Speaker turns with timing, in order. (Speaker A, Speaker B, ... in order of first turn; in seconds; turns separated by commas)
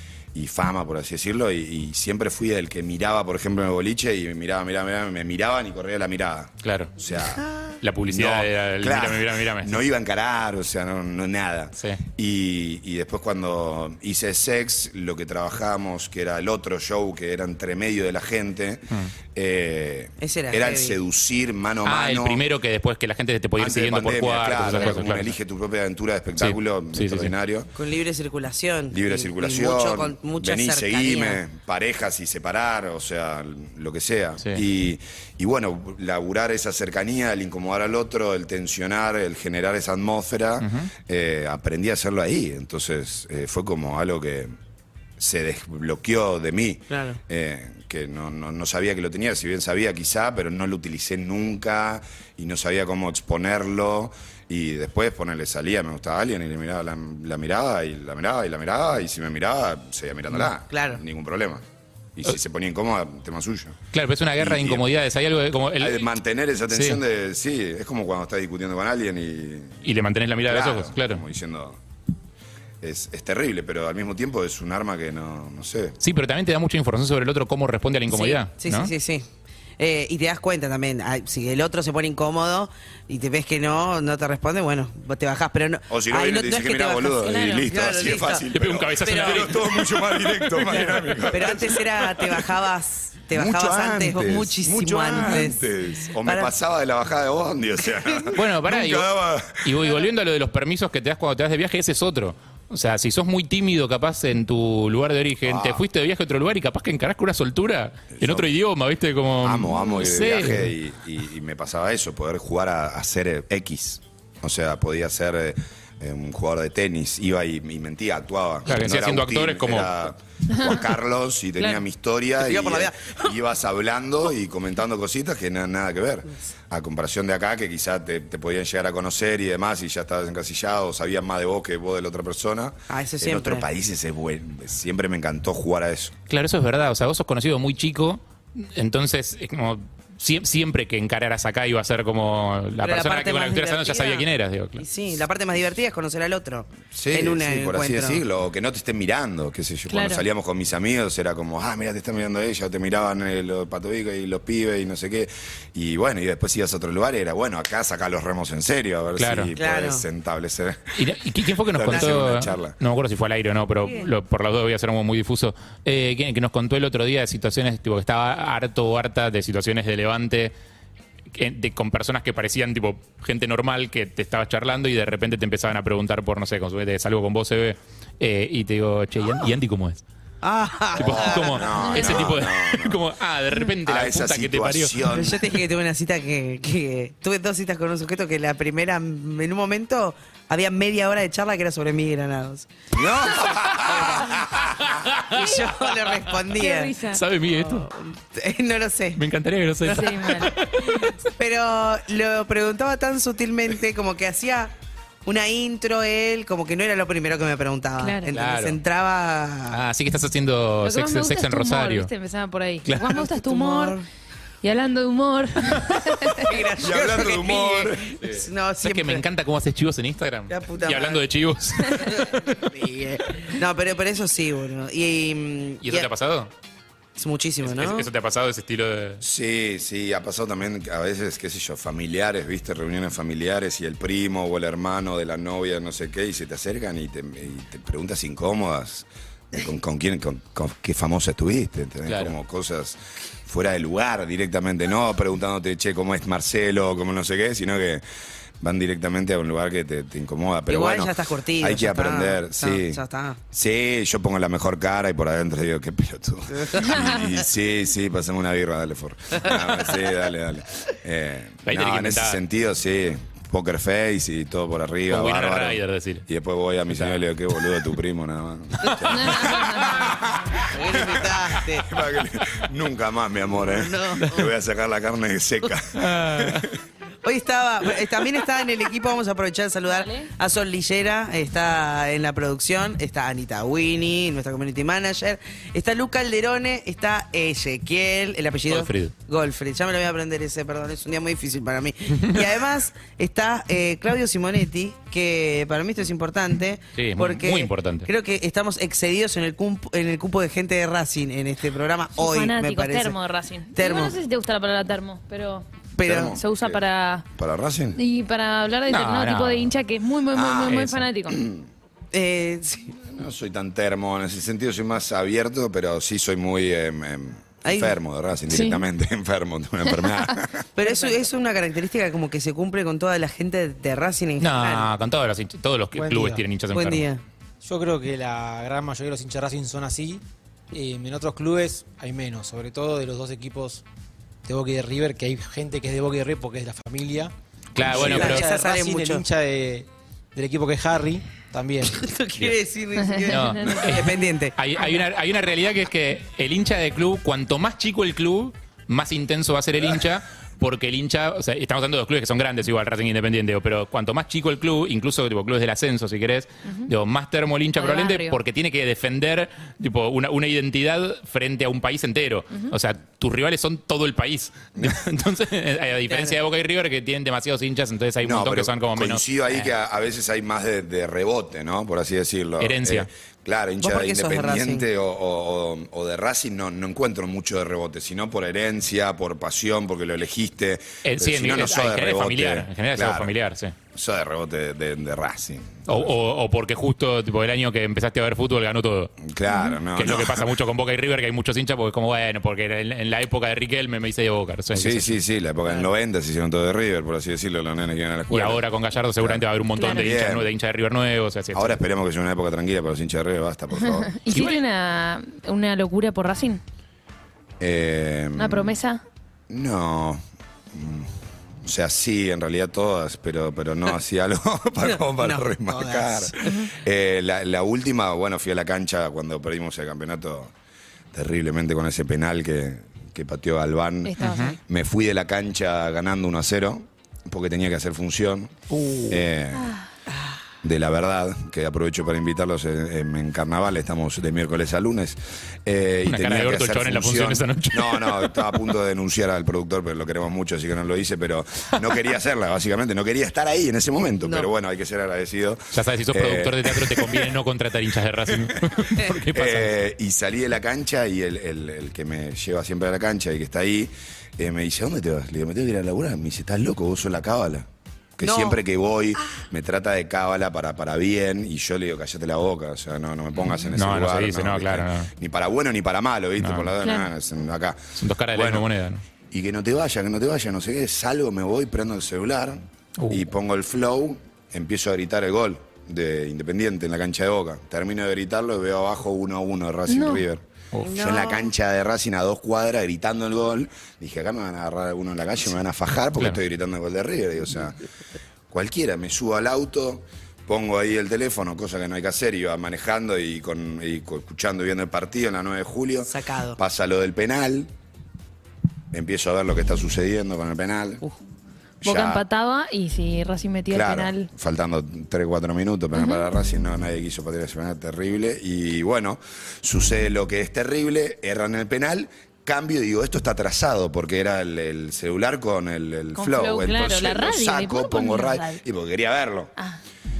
Speaker A: 0.3-7.4, Speaker B: 6.6-6.9, Speaker C: 7.3-7.8, Speaker B: 7.8-9.8, Speaker A: 8.0-22.4, Speaker C: 20.2-21.0, Speaker B: 21.8-25.3, Speaker A: 23.6-27.7, Speaker B: 26.4-27.3, Speaker C: 27.8-31.4, Speaker A: 28.9-44.5, Speaker B: 40.6-40.9, Speaker A: 45.2-61.6, Speaker C: 46.9-47.2, Speaker C: 60.7-61.0, Speaker A: 62.1-63.8, Speaker B: 63.9-66.1, Speaker A: 64.4-64.9, Speaker A: 65.8-69.8, Speaker B: 66.7-67.0, Speaker B: 69.8-71.2, Speaker A: 70.5-71.8, Speaker A: 72.8-76.0, Speaker B: 76.0-78.9, Speaker C: 78.1-79.3, Speaker C: 79.8-88.4, Speaker A: 85.9-92.4, Speaker D: 87.2-87.7, Speaker B: 88.5-91.6, Speaker C: 89.0-89.5, Speaker C: 91.3-95.6, Speaker A: 93.3-99.8, Speaker C: 96.2-96.5, Speaker B: 98.3-110.8, Speaker A: 105.4-105.8, Speaker A: 108.1-108.5, Speaker A: 109.4-136.2, Speaker B: 118.7-119.9, Speaker C: 122.4-123.3, Speaker C: 132.9-133.7, Speaker B: 136.3-144.8, Speaker C: 142.8-144.2, Speaker C: 144.8-148.2, Speaker A: 146.9-161.0, Speaker D: 149.9-150.2, Speaker B: 159.2-159.5, Speaker C: 159.6-160.0, Speaker B: 160.9-170.5, Speaker A: 161.7-162.8, Speaker C: 163.8-164.1, Speaker B: 171.3-180.0, Speaker C: 180.4-182.3, Speaker B: 180.9-185.0, Speaker A: 180.9-185.6, Speaker C: 185.1-192.7, Speaker A: 192.9-194.8, Speaker C: 193.8-194.4, Speaker B: 194.8-196.3, Speaker C: 195.3-196.9, Speaker D: 196.5-197.2, Speaker B: 197.1-197.9, Speaker C: 197.5-199.2, Speaker B: 199.2-201.1, Speaker C: 199.8-204.7, Speaker D: 199.9-200.5, Speaker C: 205.2-209.8, Speaker D: 208.0-208.3, Speaker B: 208.3-208.8, Speaker B: 209.7-212.1, Speaker D: 210.8-214.0, Speaker B: 212.8-213.2, Speaker C: 213.2-214.0, Speaker D: 214.6-216.5, Speaker C: 216.3-219.2, Speaker A: 216.8-218.2, Speaker B: 218.8-222.6, Speaker C: 220.5-221.2, Speaker C: 222.0-226.1, Speaker B: 225.8-226.5, Speaker C: 227.2-228.1, Speaker B: 227.6-229.2, Speaker A: 229.2-248.0, Speaker B: 242.1-242.3, Speaker A: 248.6-253.0, Speaker C: 250.7-253.4, Speaker A: 253.5-276.7, Speaker C: 256.5-257.2, Speaker C: 259.4-259.9, Speaker B: 261.6-262.4, Speaker B: 265.1-266.2, Speaker B: 266.9-267.2, Speaker B: 268.8-269.6, Speaker D: 269.1-270.0, Speaker C: 270.6-271.9, Speaker C: 273.6-274.5, Speaker B: 275.9-276.7, Speaker C: 277.2-303.2, Speaker D: 279.9-280.3, Speaker B: 288.7-289.1, Speaker B: 296.9-298.1, Speaker D: 302.1-307.2, Speaker C: 303.7-304.2, Speaker C: 305.9-306.3, Speaker A: 306.0-308.0, Speaker D: 307.9-311.4, Speaker B: 308.9-309.7, Speaker A: 310.3-311.6, Speaker B: 310.7-311.1, Speaker C: 312.1-313.0, Speaker A: 313.0-320.6, Speaker C: 317.6-317.9, Speaker D: 318.5-318.8, Speaker D: 319.9-320.4, Speaker C: 320.8-324.9, Speaker B: 324.4-327.1, Speaker E: 325.9-326.4, Speaker C: 326.7-327.2, Speaker E: 327.6-333.8, Speaker E: 334.4-342.0, Speaker B: 337.7-338.5, Speaker C: 337.9-339.2, Speaker C: 342.0-344.9, Speaker D: 343.0-344.0, Speaker B: 343.3-369.7, Speaker D: 357.8-358.4, Speaker A: 364.8-365.0, Speaker C: 366.1-366.4, Speaker A: 368.2-383.3, Speaker B: 372.6-373.1, Speaker C: 373.8-374.9, Speaker B: 381.0-383.7, Speaker A: 383.9-386.1, Speaker B: 385.9-389.2, Speaker A: 389.2-390.5, Speaker D: 389.5-389.8, Speaker B: 389.9-395.2, Speaker A: 394.7-400.5, Speaker B: 398.3-401.8, Speaker D: 399.8-400.1, Speaker A: 401.5-404.1, Speaker D: 403.8-406.6, Speaker B: 404.3-404.6, Speaker A: 407.6-408.8, Speaker D: 408.4-409.0, Speaker A: 409.5-411.1, Speaker A: 411.6-420.5, Speaker C: 414.8-416.4, Speaker D: 416.4-416.7, Speaker A: 421.1-428.6, Speaker D: 424.0-424.6, Speaker B: 424.2-424.6, Speaker B: 428.7-429.2, Speaker A: 429.1-429.7, Speaker D: 429.6-429.8, Speaker A: 430.6-447.3, Speaker B: 436.0-438.4, Speaker C: 444.2-444.5, Speaker B: 445.7-449.7, Speaker A: 448.3-468.7, Speaker C: 458.2-458.6, Speaker B: 463.7-465.1, Speaker B: 466.4-466.7, Speaker D: 466.8-467.1, Speaker B: 468.0-469.0, Speaker A: 469.3-487.8, Speaker B: 473.0-473.2, Speaker D: 479.9-480.2, Speaker C: 480.8-481.5, Speaker A: 488.5-497.7, Speaker C: 496.1-496.6, Speaker A: 498.9-501.0, Speaker A: 501.8-502.2, Speaker D: 501.8-504.3, Speaker A: 503.7-519.5, Speaker D: 505.9-506.2, Speaker D: 516.1-518.6